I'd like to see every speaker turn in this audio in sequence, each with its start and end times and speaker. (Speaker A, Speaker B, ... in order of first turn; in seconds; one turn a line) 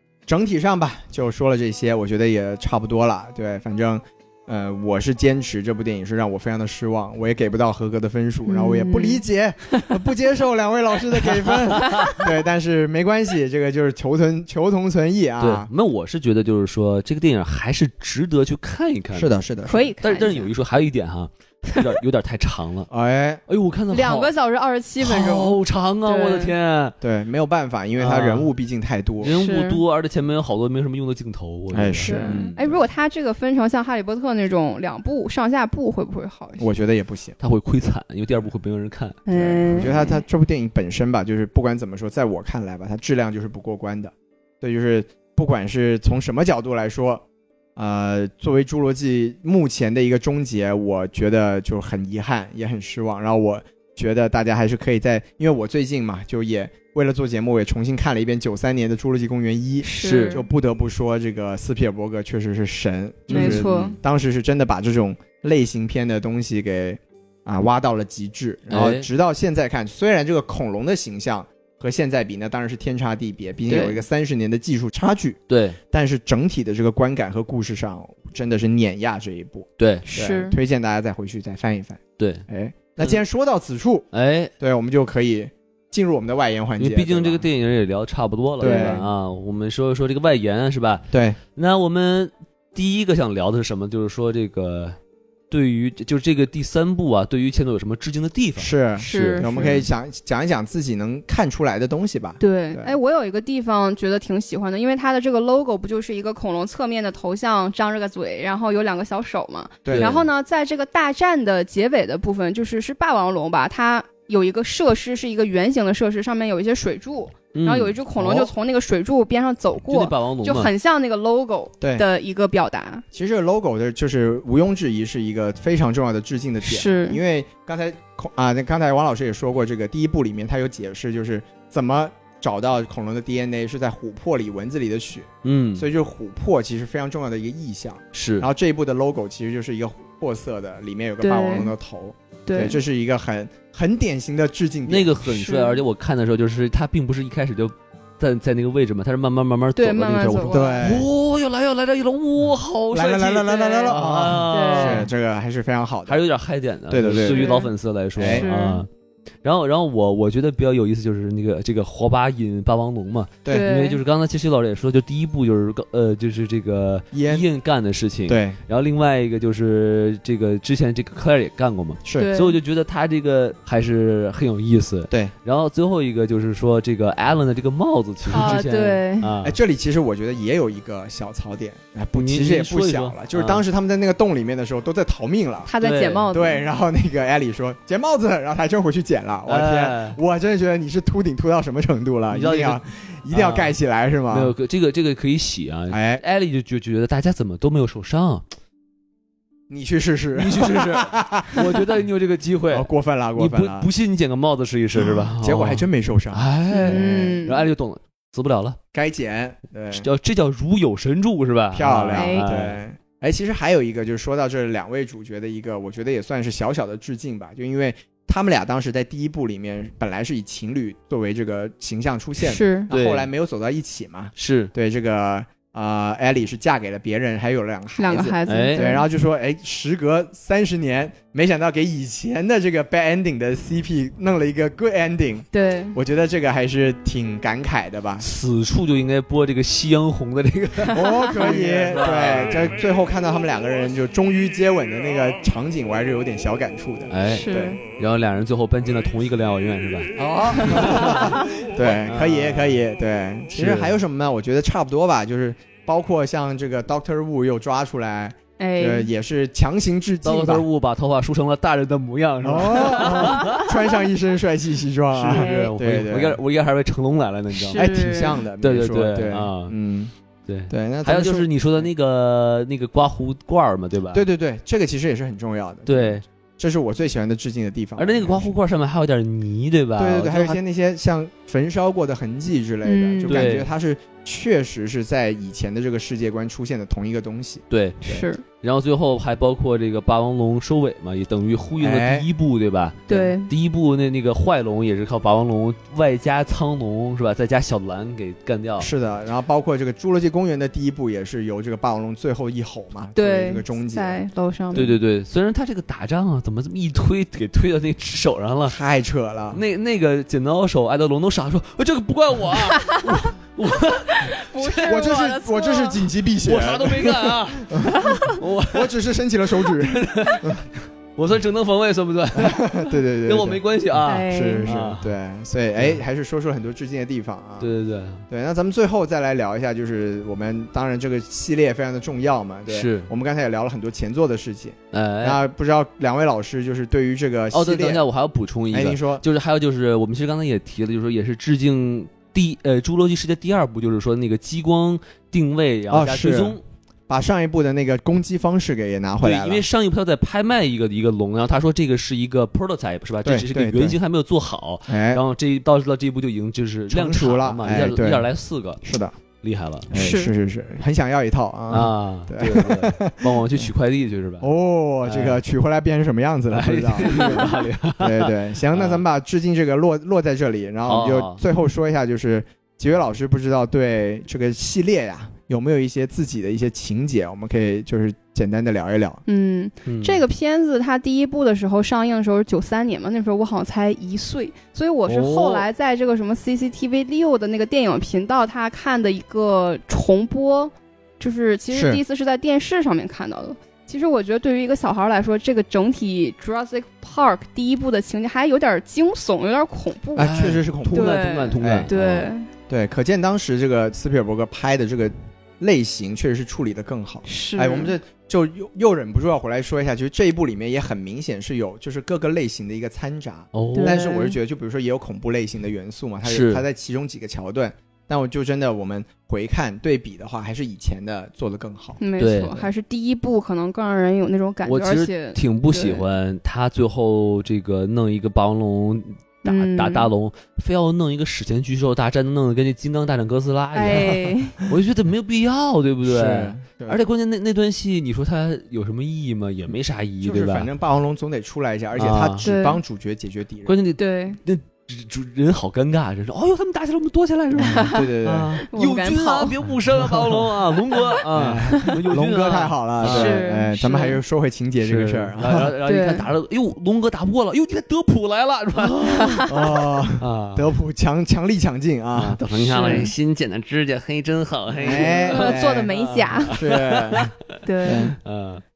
Speaker A: 0.3-15.7
Speaker B: 8.5-9.9
Speaker C: 11.2-12.2
Speaker C: 15.4-19.3
Speaker A: 19.1-19.9
Speaker B: 19.7-20.5
Speaker C: 20.0-22.9
Speaker A: 22.9-23.4
Speaker C: 23.5-24.3
Speaker B: 23.9-26.5
Speaker C: 25.0-27.0
Speaker A: 27.0-29.3
Speaker C: 28.0-28.5
Speaker C: 29.2-32.6
Speaker B: 29.3-29.8
Speaker A: 31.7-32.7
Speaker B: 32.0-36.6
Speaker A: 36.6-37.4
Speaker C: 37.4-39.2
Speaker B: 39.3-40.2
Speaker A: 39.3-47.2
Speaker A: 47.8-75.4
Speaker B: 59.8-60.5
Speaker C: 60.0-60.4
Speaker C: 63.3-64.0
Speaker B: 63.3-64.0
Speaker C: 68.7-69.1
Speaker B: 73.7-74.0
Speaker C: 75.5-75.8
Speaker A: 75.9-84.1
Speaker C: 79.8-80.0
Speaker B: 80.0-80.6
Speaker C: 82.2-82.4
Speaker C: 84.1-84.5
Speaker A: 84.6-87.5
Speaker C: 86.8-95.0
Speaker A: 88.6-89.0
Speaker B: 88.6-89.0
Speaker A: 91.1-91.4
Speaker C: 95.5-99.8
Speaker A: 98.6-103.0
Speaker B: 99.0-99.8
Speaker B: 102.4-123.0
Speaker A: 109.8-110.2
Speaker C: 109.9-110.3
Speaker C: 117.5-118.0
Speaker A: 118.2-118.5
Speaker C: 119.9-120.7
Speaker A: 121.8-122.1
Speaker A: 123.1-145.1
Speaker B: 126.7-127.2
Speaker C: 135.4-135.9
Speaker C: 138.1-138.5
Speaker B: 141.2-141.7
Speaker B: 142.5-142.8
Speaker C: 144.9-155.1
Speaker B: 145.3-145.8
Speaker B: 149.8-150.8
Speaker A: 150.5-151.1
Speaker A: 152.9-156.2
Speaker B: 154.5-155.1
Speaker C: 156.1-158.9
Speaker A: 156.9-157.4
Speaker B: 157.2-157.7
Speaker A: 158.2-158.5
Speaker B: 158.3-158.8
Speaker C: 159.4-179.6
Speaker B: 163.5-164.0
Speaker A: 167.1-167.5
Speaker A: 168.3-168.6
Speaker A: 172.1-172.3
Speaker B: 172.2-172.6
Speaker B: 178.3-179.3
Speaker A: 179.4-185.7
Speaker C: 182.2-183.6
Speaker B: 185.7-186.7
Speaker C: 185.8-186.3
Speaker A: 186.3-194.5
Speaker C: 189.5-190.2
Speaker C: 192.3-193.8
Speaker C: 194.3-198.4
Speaker A: 195.9-196.2
Speaker A: 199.7-201.6
Speaker C: 200.3-208.8
Speaker A: 202.7-203.9
Speaker A: 205.0-207.4
Speaker B: 206.7-207.6
Speaker A: 208.9-210.1
Speaker C: 209.9-212.8
Speaker A: 211.7-238.3
Speaker B: 212.1-212.5
Speaker B: 222.4-222.9
Speaker C: 222.9-223.3
Speaker C: 224.4-224.7
Speaker B: 228.0-229.1
Speaker C: 228.5-228.9
Speaker B: 235.5-236.0
Speaker C: 238.2-242.7
Speaker A: 240.9-247.8
Speaker C: 247.1-251.4
Speaker B: 247.3-247.8
Speaker A: 250.2-260.7
Speaker C: 252.1-252.8
Speaker C: 253.6-254.0
Speaker B: 258.6-259.1
Speaker C: 260.2-263.7
Speaker A: 262.4-266.4
Speaker C: 265.1-269.7
Speaker B: 265.3-265.7
Speaker B: 267.6-268.4
Speaker A: 267.7-270.1
Speaker C: 270.5-274.3
Speaker A: 270.7-271.9
Speaker A: 274.1-278.6
Speaker C: 275.9-276.2
Speaker C: 278.0-280.6
Speaker A: 280.0-288.2
Speaker B: 282.8-283.5
Speaker C: 283.3-283.7
Speaker C: 287.7-288.0
Speaker B: 288.0-288.4
Speaker C: 288.6-298.9
Speaker A: 291.8-292.3
Speaker B: 293.1-293.5
Speaker A: 298.8-304.2
Speaker B: 303.2-304.9
Speaker C: 304.7-308.8
Speaker A: 308.6-309.6
Speaker C: 309.5-315.0
Speaker B: 312.8-313.0
Speaker B: 314.1-316.1
Speaker A: 314.9-320.6
Speaker C: 316.4-318.9
Speaker B: 318.0-318.4
Speaker C: 319.6-325.1
Speaker A: 322.4-323.6
Speaker B: 324.1-324.7
Speaker A: 324.3-327.7
Speaker C: 327.6-328.2
Speaker A: 328.3-338.0
Speaker C: 332.7-333.1
Speaker C: 334.9-335.4
Speaker C: 337.5-346.6
Speaker A: 338.7-339.2
Speaker A: 345.9-346.6
Speaker A: 347.1-349.6
Speaker C: 349.2-358.8
Speaker A: 353.2-354.0
Speaker A: 354.9-355.2
Speaker A: 356.9-358.3
Speaker A: 358.8-359.1
Speaker C: 359.4-359.9
Speaker A: 359.9-363.7
Speaker B: 359.9-360.3
Speaker C: 361.7-364.5
Speaker A: 364.4-367.5
Speaker C: 365.0-365.4
Speaker C: 366.5-369.0
Speaker B: 367.1-367.4
Speaker A: 368.0-379.2
Speaker C: 370.9-371.4
Speaker B: 379.3-402.5
Speaker C: 379.9-380.2
Speaker C: 385.1-385.7
Speaker A: 391.7-392.0
Speaker A: 400.2-401.9
Speaker C: 400.2-402.3
Speaker A: 402.7-422.0
Speaker B: 407.3-407.9
Speaker C: 413.5-414.0
Speaker B: 413.7-414.4
Speaker C: 416.2-416.6
Speaker B: 422.0-426.1
Speaker C: 422.2-422.7
Speaker C: 424.6-440.7
Speaker B: 429.4-430.1
Speaker B: 433.8-434.6
Speaker A: 436.1-437.0
Speaker A: 440.2-443.8
Speaker C: 442.0-442.4
Speaker B: 442.4-442.8
Speaker C: 443.7-453.4
Speaker B: 444.0-444.4
Speaker B: 447.6-448.1
Speaker A: 447.6-448.6
Speaker B: 448.7-449.6
Speaker B: 450.9-451.2
Speaker A: 451.3-455.7
Speaker B: 453.0-454.2
Speaker C: 454.8-460.7
Speaker B: 455.9-456.3
Speaker B: 459.1-459.5
Speaker A: 459.5-463.0
Speaker C: 462.2-467.6
Speaker B: 462.7-463.1
Speaker A: 464.8-465.9
Speaker B: 464.9-466.6
Speaker A: 466.6-467.3
Speaker B: 467.6-468.1
Speaker A: 467.9-468.1
Speaker C: 468.2-468.6